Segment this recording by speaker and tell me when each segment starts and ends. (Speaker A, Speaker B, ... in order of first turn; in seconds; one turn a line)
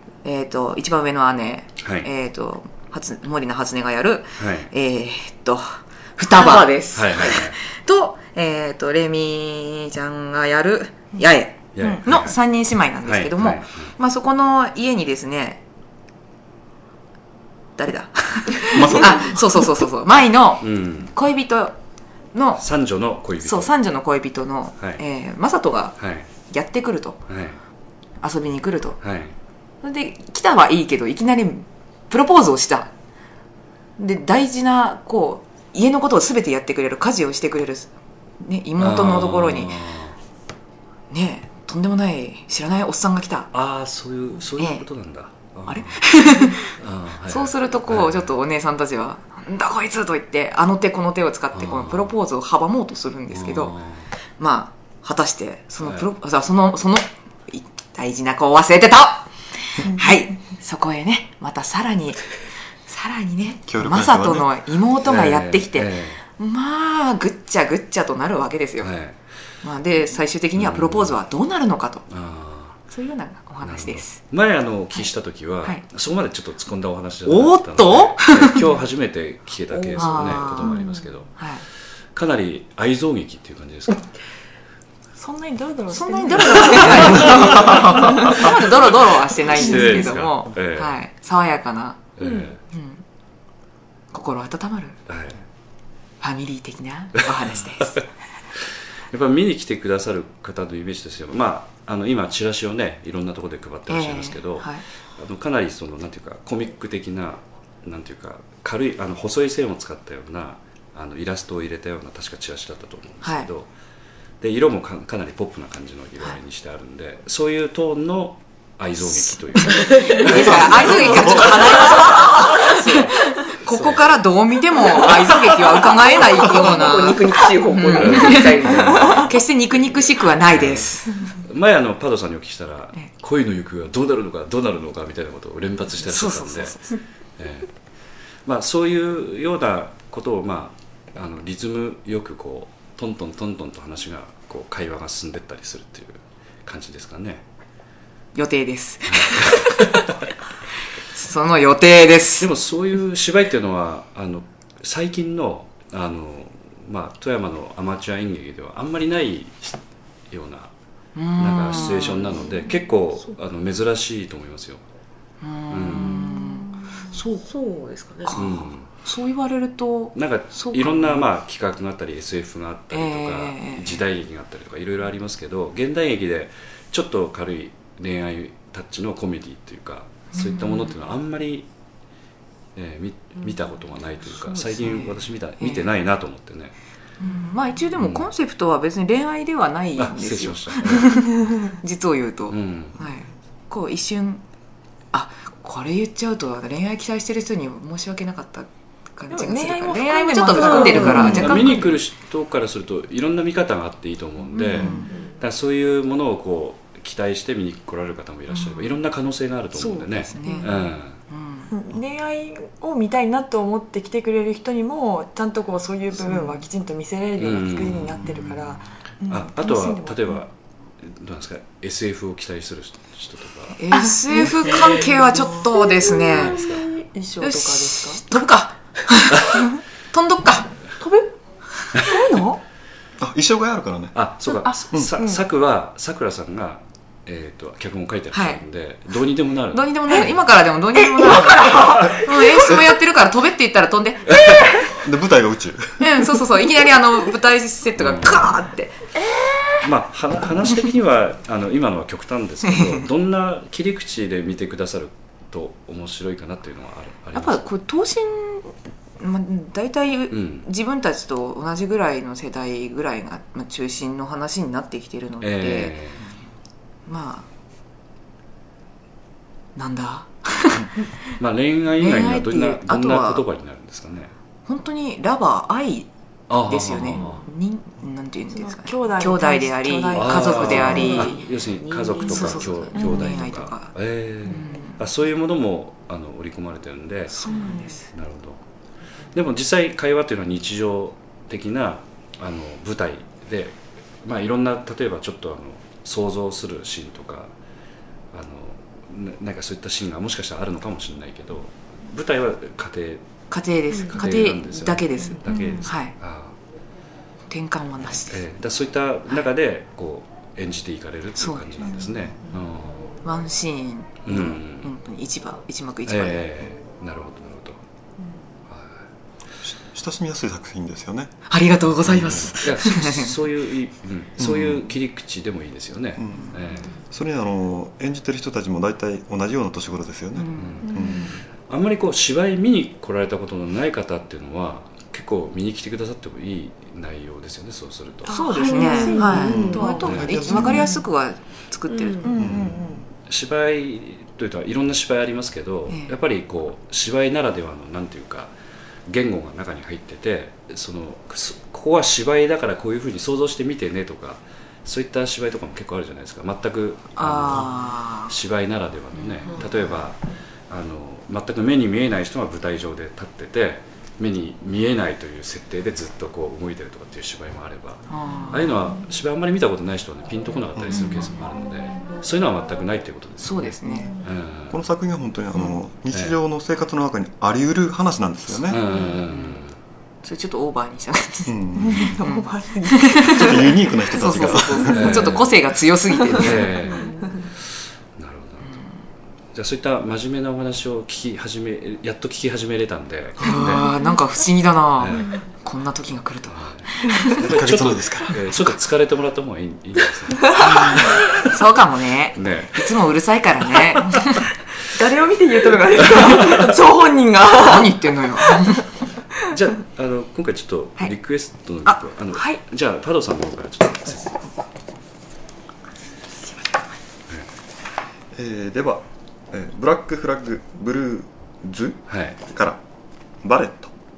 Speaker A: 0.2-15.6
Speaker B: 1.8-2.1
Speaker B: 4.4-4.7
Speaker C: 6.3-7.4
Speaker B: 6.9-7.5
Speaker B: 11.7-12.3
Speaker B: 13.1-13.9
Speaker A: 17.8-21.7
Speaker D: 18.7-19.6
Speaker B: 20.6-21.1
Speaker A: 22.3-22.6
Speaker B: 22.6-23.7
Speaker A: 23.4-26.0
Speaker B: 26.0-26.3
Speaker A: 26.5-27.2
Speaker B: 27.3-27.6
Speaker A: 28.2-29.0
Speaker B: 29.0-29.3
Speaker A: 29.8-32.9
Speaker A: 34.0-37.9
Speaker A: 38.4-39.8
Speaker B: 38.8-40.2
Speaker A: 41.1-43.5
Speaker B: 43.5-46.2
Speaker A: 44.6-44.8
Speaker A: 45.7-46.7
Speaker B: 46.7-48.2
Speaker A: 47.3-53.7
Speaker B: 51.5-52.1
Speaker B: 53.3-54.1
Speaker A: 54.4-62.2
Speaker B: 55.8-56.1
Speaker A: 62.8-68.9
Speaker D: 63.7-64.5
Speaker B: 65.0-66.2
Speaker B: 68.8-69.2
Speaker A: 69.6-72.0
Speaker B: 70.5-71.1
Speaker B: 72.1-72.8
Speaker A: 72.9-74.2
Speaker B: 73.6-81.4
Speaker A: 77.2-78.6
Speaker C: 79.8-80.4
Speaker A: 79.9-80.8
Speaker A: 81.4-81.6
Speaker B: 82.1-84.1
Speaker E: 85.2-88.5
Speaker A: 85.9-92.0
Speaker B: 88.4-90.9
Speaker B: 92.2-92.6
Speaker C: 92.2-92.5
Speaker A: 92.7-93.0
Speaker A: 94.1-95.0
Speaker B: 95.1-95.4
Speaker A: 96.2-98.0
Speaker B: 98.6-113.7
Speaker A: 103.9-104.8
Speaker B: 114.4-121.5
Speaker A: 119.0-131.3
Speaker C: 119.7-123.2
Speaker D: 120.3-121.6
Speaker B: 123.7-124.1
Speaker C: 126.1-129.3
Speaker B: 128.0-129.2
Speaker E: 128.8-129.2
Speaker B: 130.5-137.7
Speaker A: 136.0-136.9
Speaker B: 138.4-147.4
Speaker A: 148.3-150.0
Speaker B: 149.1-150.1
Speaker A: 151.1-152.5
Speaker B: 152.4-159.7
Speaker B: 160.3-160.7
Speaker A: 161.1-162.5
Speaker B: 161.4-164.8
Speaker A: 165.4-167.3
Speaker B: 165.7-166.3
Speaker C: 167.1-168.3
Speaker A: 168.2-171.2
Speaker B: 168.3-168.8
Speaker B: 170.1-181.7
Speaker A: 172.9-174.0
Speaker A: 180.3-180.9
Speaker B: 182.7-186.8
Speaker A: 184.6-185.9
Speaker A: 187.2-194.4
Speaker B: 188.0-188.2
Speaker B: 190.0-191.2
Speaker B: 192.5-192.9
Speaker A: 195.1-201.9
Speaker E: 199.3-201.8
Speaker C: 200.6-201.4
Speaker B: 201.0-211.2
Speaker A: 204.6-205.1
Speaker C: 205.1-205.3
Speaker A: 209.7-211.7
Speaker E: 210.4-210.7
Speaker E: 211.7-220.3
Speaker A: 216.3-216.6
Speaker B: 217.4-218.2
Speaker B: 219.3-223.8
Speaker A: 223.8-226.7
Speaker E: 223.9-225.6
Speaker C: 226.1-227.1
Speaker B: 226.3-226.8
Speaker E: 227.1-228.2
Speaker A: 227.4-230.7
Speaker E: 231.0-231.3
Speaker E: 231.9-232.6
Speaker D: 233.2-234.1
Speaker B: 234.1-240.4
Speaker E: 234.6-235.4
Speaker A: 238.3-238.6
Speaker A: 239.7-244.3
Speaker E: 241.2-242.3
Speaker B: 241.6-242.2
Speaker B: 244.3-244.7
Speaker D: 244.9-246.0
Speaker A: 246.0-248.9
Speaker B: 248.0-248.5
Speaker B: 249.8-257.6
Speaker A: 252.7-253.0
Speaker A: 257.3-265.9
Speaker B: 260.3-260.6
Speaker B: 265.4-266.2
Speaker A: 267.1-267.4
Speaker A: 269.8-270.9
Speaker B: 271.4-274.3
Speaker A: 272.0-273.4
Speaker A: 274.6-276.1
Speaker B: 276.5-277.4
Speaker A: 276.6-281.5
Speaker E: 278.5-281.2
Speaker B: 280.1-288.6
Speaker C: 280.8-283.0
Speaker A: 282.2-283.9
Speaker A: 284.4-285.0
Speaker A: 287.3-288.0
Speaker E: 287.5-287.9
Speaker B: 289.3-297.5
Speaker B: 298.3-303.2
Speaker A: 303.5-306.1
Speaker B: 304.1-306.5
Speaker E: 305.3-305.9
Speaker A: 307.5-308.4
Speaker B: 308.3-313.1
Speaker A: 311.4-311.9
Speaker A: 313.2-316.4
Speaker B: 314.2-314.9
Speaker B: 316.1-317.8
Speaker B: 318.7-319.0
Speaker D: 319.6-321.3
Speaker A: 321.5-323.3
Speaker B: 322.1-326.9
Speaker D: 324.4-324.8
Speaker D: 326.2-331.4
Speaker A: 330.4-331.0
Speaker B: 330.6-330.9
Speaker E: 330.9-331.2
Speaker B: 331.7-338.3
Speaker E: 338.2-341.0
Speaker A: 338.3-342.3
Speaker C: 338.4-339.9
Speaker D: 339.4-340.9
Speaker C: 341.9-342.4
Speaker E: 342.2-343.0
Speaker D: 342.4-343.0
Speaker B: 343.3-348.5
Speaker A: 345.9-346.1
Speaker B: 349.1-374.8
Speaker A: 357.2-358.3
Speaker A: 359.1-359.6
Speaker A: 368.1-368.7
Speaker A: 373.4-374.1
Speaker D: 374.7-378.8
Speaker B: 378.7-379.7
Speaker A: 378.7-379.6
Speaker A: 380.2-387.1
Speaker D: 381.5-382.1
Speaker E: 381.8-383.8
Speaker D: 383.3-385.2
Speaker B: 384.9-385.6
Speaker B: 386.3-387.1
Speaker B: 388.1-388.8
Speaker B: 389.5-393.9
Speaker A: 393.4-397.1
Speaker B: 395.0-395.3
Speaker B: 396.5-401.4
Speaker D: 397.4-398.4
Speaker A: 400.5-404.5
Speaker B: 402.3-402.9
Speaker E: 404.9-408.8
Speaker A: 407.6-408.8
Speaker B: 409.5-414.4
Speaker D: 418.3-422.8
Speaker B: 422.1-422.4
Speaker D: 423.4-423.9